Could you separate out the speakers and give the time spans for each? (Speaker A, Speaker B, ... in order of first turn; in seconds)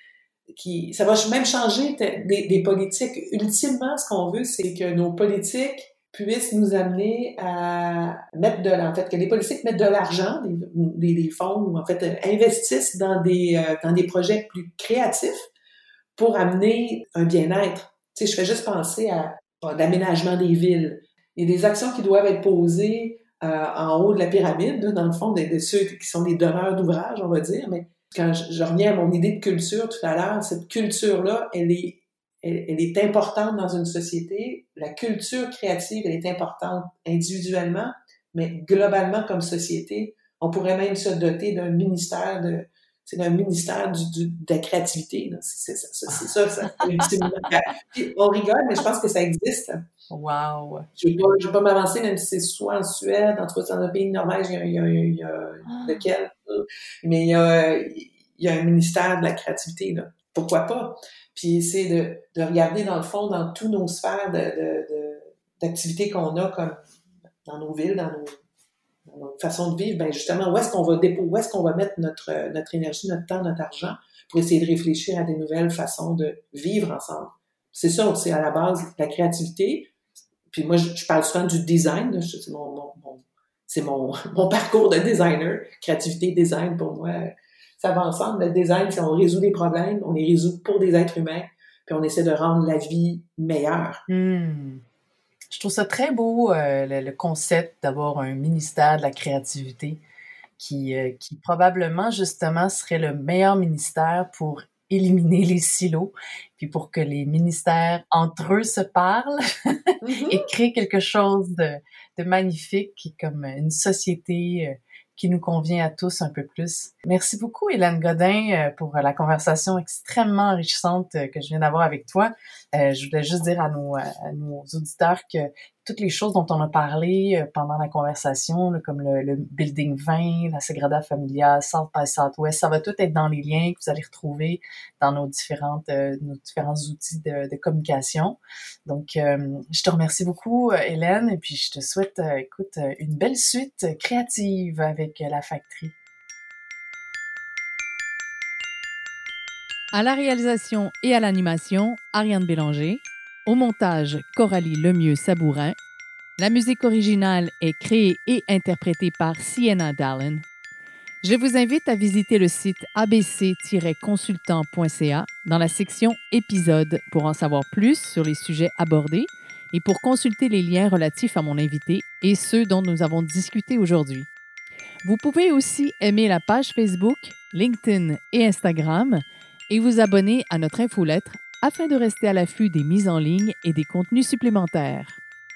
Speaker A: 0.5-15.5, 16.2-49.9, 51.0-66.8, 67.5-68.3, 69.1-79.9, 80.5-94.0, 110.0-110.5
Speaker B: 50.1-50.9, 55.7-56.0, 94.1-94.8, 95.5-100.0, 100.6-146.0, 149.9-155.8, 156.4-160.4, 161.2-174.3, 175.0-185.2